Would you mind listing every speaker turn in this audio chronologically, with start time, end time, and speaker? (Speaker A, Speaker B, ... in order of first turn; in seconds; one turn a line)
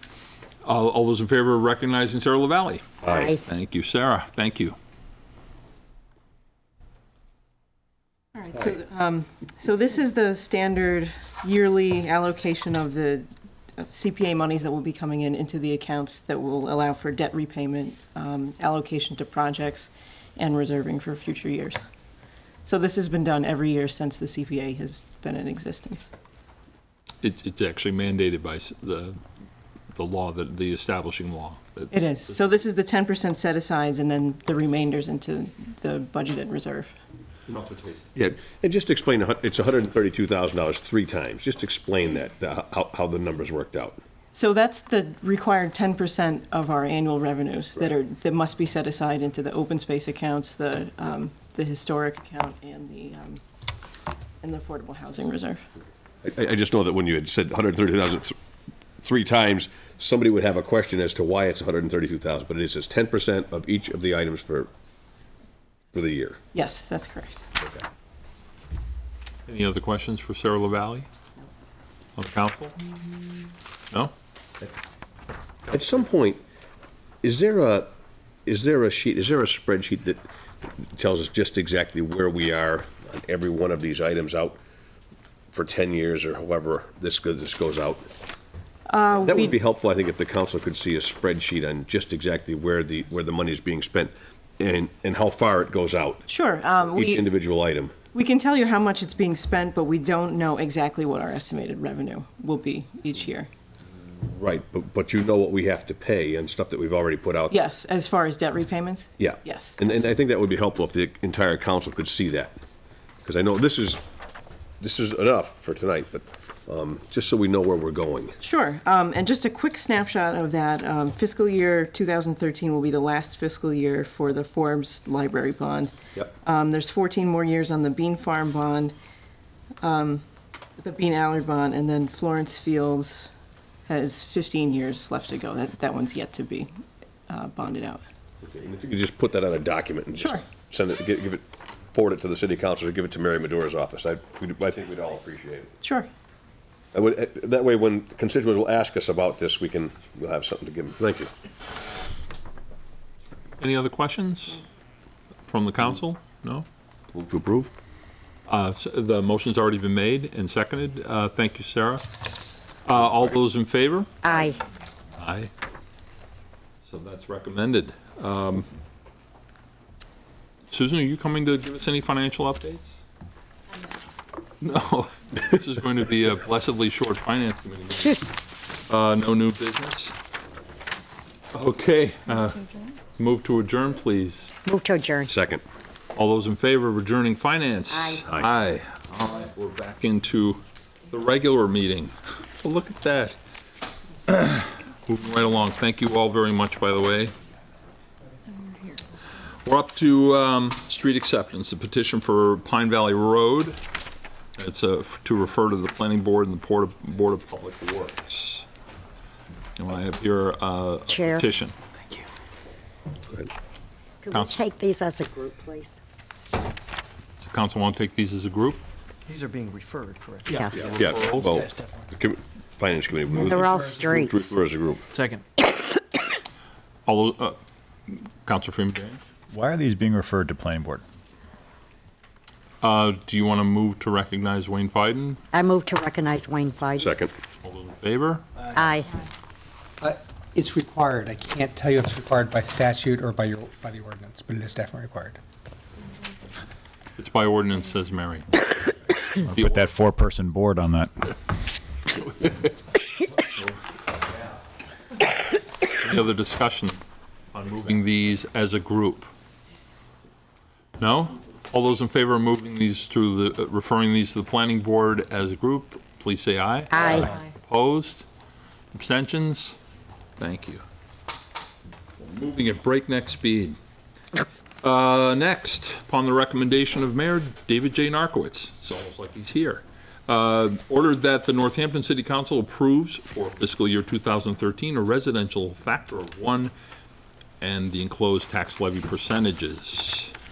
Speaker A: 0.6-4.7
Speaker B: 3.0-3.3
Speaker C: 3.1-3.4
Speaker D: 8.3-21.8
Speaker D: 22.6-26.1
Speaker A: 27.2-29.2
Speaker A: 29.9-31.9
Speaker D: 31.9-37.0
Speaker A: 37.5-38.0
Speaker B: 38.1-44.0
Speaker D: 44.3-53.4
Speaker D: 54.4-55.7
Speaker B: 56.2-58.3
Speaker B: 59.0-64.7
Speaker B: 65.9-66.4
Speaker D: 66.5-67.4
Speaker A: 69.5-71.1
Speaker A: 72.2-72.7
Speaker B: 75.7-76.4
Speaker B: 77.2-77.9
Speaker B: 78.5-80.2
Speaker B: 80.8-84.6
Speaker B: 85.5-88.1
Speaker D: 88.8-89.6
Speaker B: 89.2-97.9
Speaker D: 96.3-97.3
Speaker D: 98.1-103.5
Speaker B: 104.2-107.6
Speaker D: 107.5-109.8
Speaker B: 109.2-112.5
Speaker B: 113.2-114.0
Speaker B: 114.8-118.3
Speaker D: 118.4-128.9
Speaker D: 129.8-130.2
Speaker D: 130.8-133.3
Speaker D: 133.8-136.7
Speaker D: 137.3-138.0
Speaker B: 138.4-145.7
Speaker D: 140.1-140.4
Speaker D: 145.8-146.1
Speaker B: 146.9-151.3
Speaker A: 153.6-154.6
Speaker A: 155.5-156.7
Speaker B: 157.1-157.7
Speaker A: 158.5-162.2
Speaker A: 162.8-164.1
Speaker C: 164.2-164.6
Speaker A: 165.2-165.5
Speaker A: 166.8-168.7
Speaker A: 170.7-173.0
Speaker A: 174.6-180.1
Speaker A: 181.5-184.6
Speaker C: 184.6-185.3
Speaker B: 185.3-185.6
Speaker A: 186.2-193.4
Speaker C: 187.9-188.2
Speaker B: 188.3-188.5
Speaker A: 194.3-197.3
Speaker A: 199.6-203.8
Speaker A: 204.6-208.7
Speaker A: 209.8-211.7
Speaker C: 211.1-211.4
Speaker C: 214.2-216.0
Speaker A: 214.3-214.6
Speaker A: 217.4-218.8
Speaker E: 219.2-222.1
Speaker A: 220.5-221.5
Speaker C: 220.5-220.8
Speaker B: 220.8-225.0
Speaker C: 223.4-224.5
Speaker E: 225.1-225.4
Speaker A: 227.1-227.6
Speaker A: 228.1-229.2
Speaker F: 229.5-231.0
Speaker A: 232.8-235.4
Speaker C: 235.5-237.1
Speaker B: 237.0-237.3
Speaker A: 237.6-238.4
Speaker C: 238.8-239.1
Speaker G: 240.0-245.4
Speaker A: 247.2-248.8
Speaker F: 249.4-251.3
Speaker A: 249.4-249.9
Speaker A: 252.2-252.7
Speaker A: 256.0-257.0
Speaker A: 257.5-259.3
Speaker A: 261.0-268.2
Speaker C: 266.9-267.3
Speaker A: 268.9-269.8
Speaker A: 270.4-270.8
Speaker A: 272.2-273.8
Speaker A: 274.8-286.7
Speaker A: 287.6-290.3